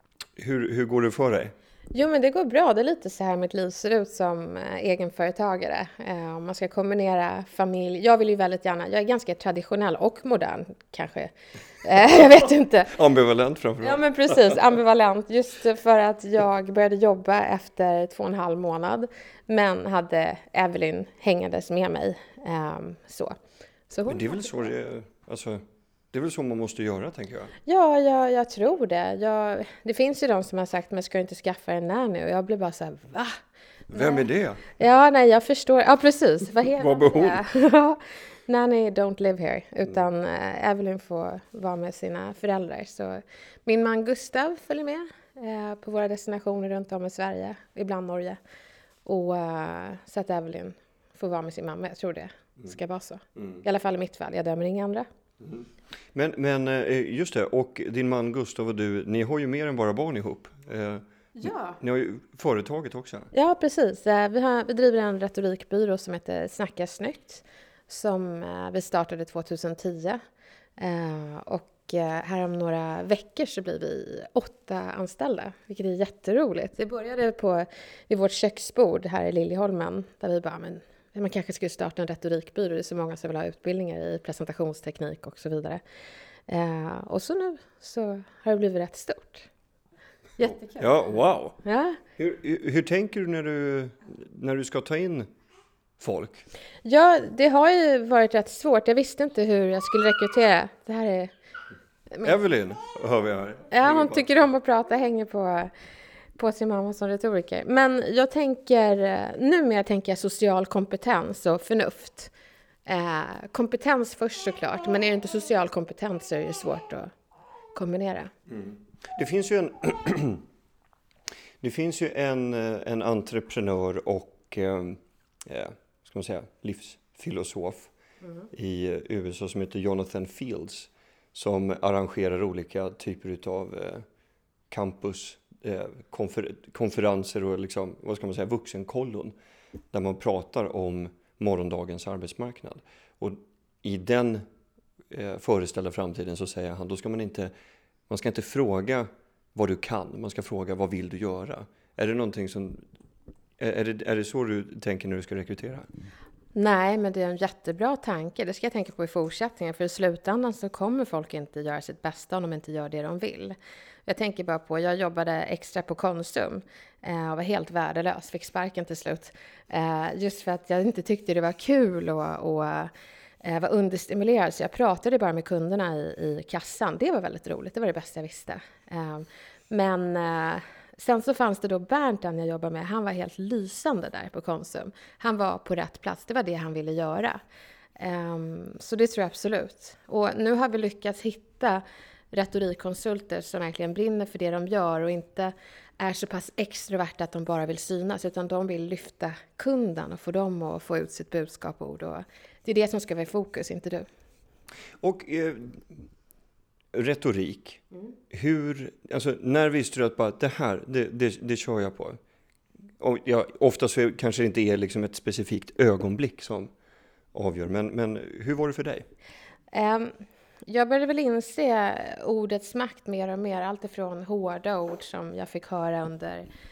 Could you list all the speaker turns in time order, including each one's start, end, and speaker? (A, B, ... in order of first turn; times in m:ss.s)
0:00.4-0:01.5 A
0:01.9-0:13.0 B
0:12.9-0:14.6 A
0:13.8-0:23.4 B
0:23.9-0:24.6 B
0:24.1-0:27.5 A
0:27.6-0:33.4 B
0:33.9-0:34.7 A
0:33.9-0:34.2 B
0:34.8-0:48.4 B
0:36.8-0:37.4 A
0:49.0-0:55.0 B
0:55.4-1:03.3 A
1:01.4-1:01.8 B
1:03.3-1:10.2 B
1:10.8-1:25.8 B
1:26.5-1:29.5 B
1:30.4-1:32.0 B
1:30.4-1:31.6 A
1:32.2-1:35.3 A
1:36.0-1:36.4 A
1:36.8-1:41.3 B
1:42.2-1:44.4 A
1:43.7-1:45.7 B
1:46.4-1:52.3 B
1:52.8-1:57.1 B
1:57.7-1:58.3 B
1:58.5-2:00.4 A
2:01.6-2:07.9 A
2:08.5-2:14.0 A
2:14.7-2:19.3 A
2:19.9-2:24.4 A
2:25.1-2:27.5 A
2:28.1-2:32.8 A
2:33.6-2:35.9 A
2:36.5-3:07.4 B
3:08.0-3:24.0 B
3:25.0-3:26.0 A
3:26.9-3:32.2 A
3:33.0-3:36.7 A
3:37.3-3:39.0 A
3:39.7-3:46.4 B